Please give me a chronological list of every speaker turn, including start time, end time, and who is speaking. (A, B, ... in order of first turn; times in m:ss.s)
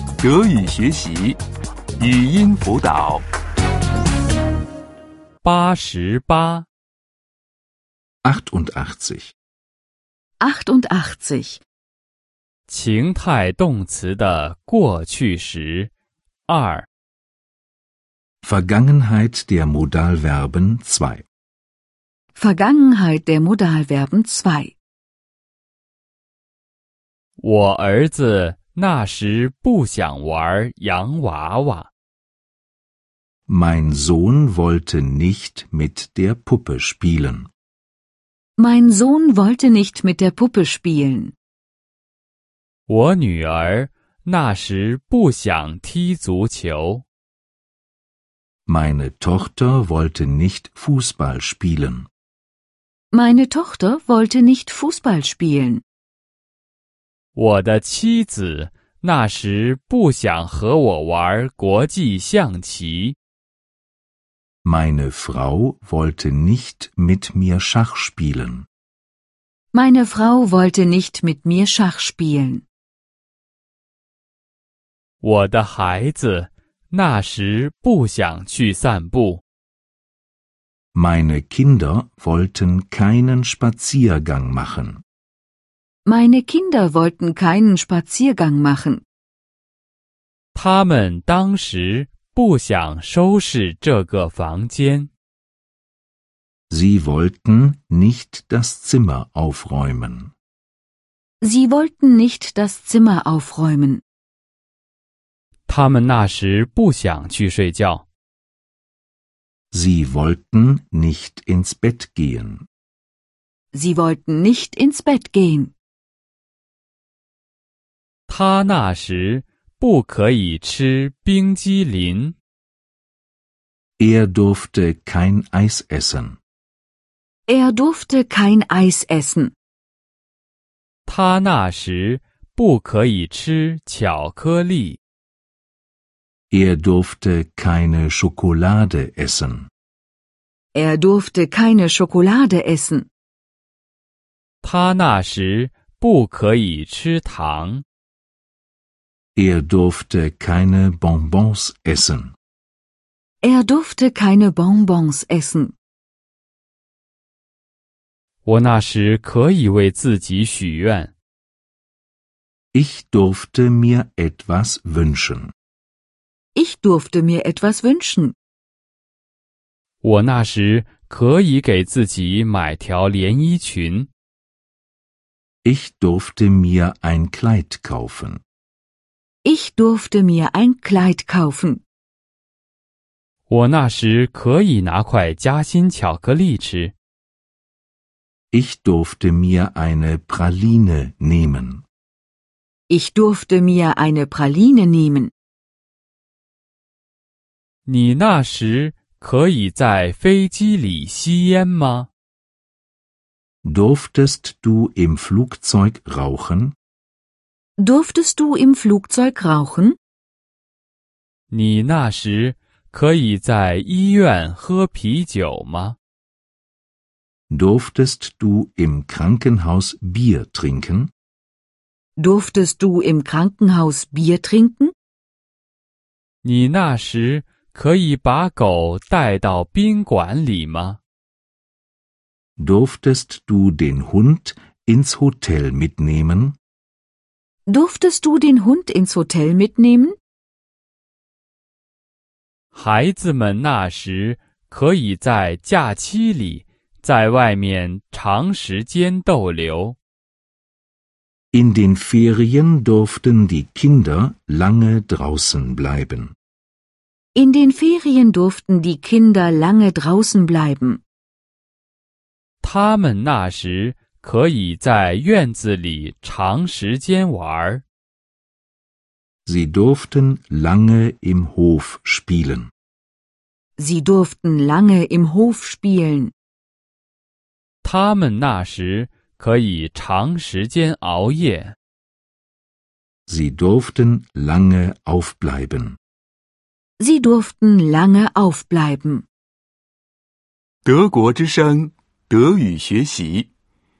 0:00.2-0:01.4 A
0:02.0-0:03.2 A
0:05.4-0:06.6 B
0:08.2-0:09.3 C
0:10.4-0:11.6 D
0:12.7-0:15.9 B
0:16.4-0:16.9 B
0:18.4-0:21.2 C
0:22.3-0:24.8 D
0:27.4-0:31.9 B
0:33.5-0:37.5 C
0:38.6-0:41.3 D
0:42.9-0:47.0 B
0:48.7-0:52.1 C
0:53.1-0:55.8 D
0:57.3-1:03.2 B
1:04.6-1:08.7 C
1:09.7-1:12.6 D
1:15.2-1:19.4 B
1:20.9-1:25.0 C
1:26.1-1:29.0 D
1:30.5-1:35.1 B
1:36.7-1:40.3 C
1:41.4-1:44.0 D
1:45.7-1:48.1 B
1:49.7-1:52.6 C
1:53.7-1:55.7 D
1:58.3-2:02.3 B
2:04.0-2:06.4 C
2:07.5-2:09.5 D
2:11.1-2:15.0 B
2:16.5-2:19.7 C
2:20.8-2:23.1 D
2:24.6-2:27.8 B
2:29.4-2:32.3 C
2:33.4-2:35.8 D
2:38.4-2:41.1 B
2:42.7-2:45.5 C
2:46.6-2:48.3 D
2:50.0-2:54.1 B
2:55.6-2:58.4 C
2:59.4-3:01.8 D
3:03.5-3:06.9 B
3:08.5-3:11.8 C
3:12.9-3:15.3 D
3:17.9-3:22.1 B
3:23.6-3:26.8 C
3:27.8-3:30.0 D
3:31.5-3:36.0 B
3:37.5-3:41.1 C
3:42.2-3:44.9 D
3:46.4-3:51.0 B
3:52.6-3:56.6 C
3:57.7-4:00.2 D
4:02.7-4:10.0 B
4:11.5-4:16.3 C
4:17.4-4:21.0 D
4:22.6-4:27.8 B
4:29.4-4:32.7 C
4:33.8-4:36.3 D
4:37.8-4:41.8 B
4:43.3-4:46.0 C
4:47.0-4:49.2 D
4:50.8-4:53.5 A